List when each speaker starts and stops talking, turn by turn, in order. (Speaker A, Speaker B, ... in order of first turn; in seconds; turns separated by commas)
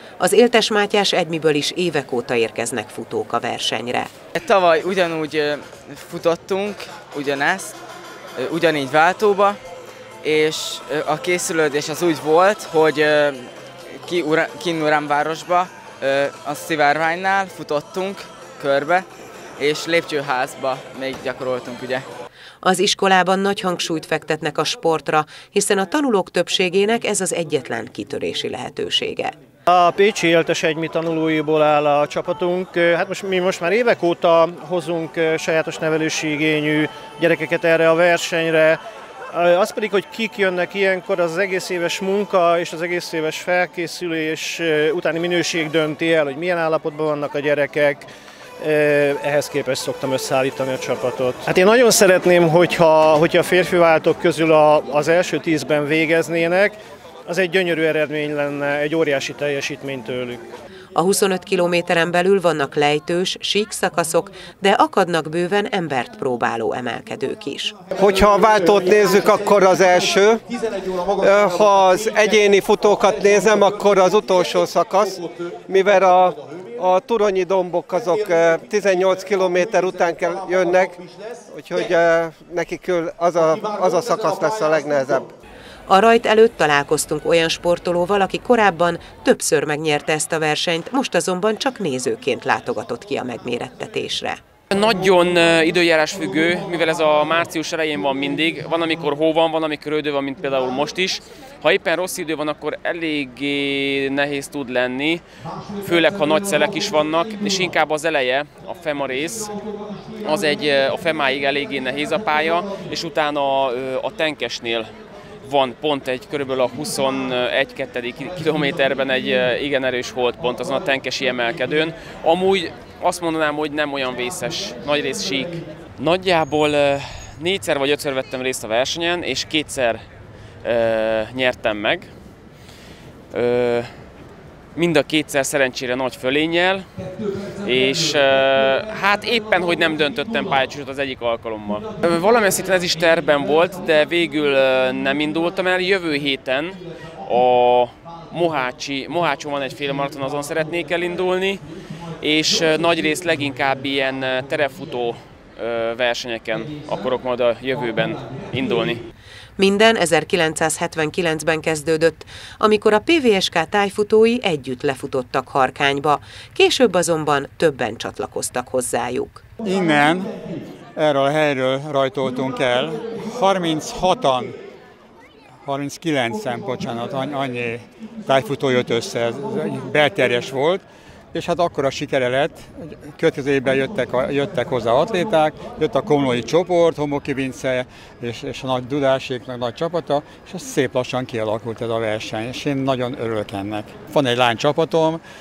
Speaker A: 0.2-4.1, Speaker B: 4.3-7.8, Speaker B: 8.4-9.6, Speaker B: 10.2-19.1, Speaker B: 19.6-22.1, Speaker A: 22.6-29.4, Speaker C: 29.7-38.8, Speaker C: 39.3-60.5, Speaker A: 61.0-67.8, Speaker D: 68.0-70.4, Speaker D: 71.1-85.3, Speaker A: 85.9-94.4, Speaker E: 94.7-105.2, Speaker E: 105.8-109.6, Speaker E: 110.2-114.9, Speaker E: 115.4-130.0, Speaker E: 130.6-132.1, Speaker E: 133.3-133.9, Speaker E: 134.8-136.9, Speaker E: 137.6-151.7, Speaker E: 152.2-159.0, Speaker A: 159.6-169.4, Speaker F: 169.6-170.3, Speaker F: 171.0-174.6, Speaker F: 175.6-195.2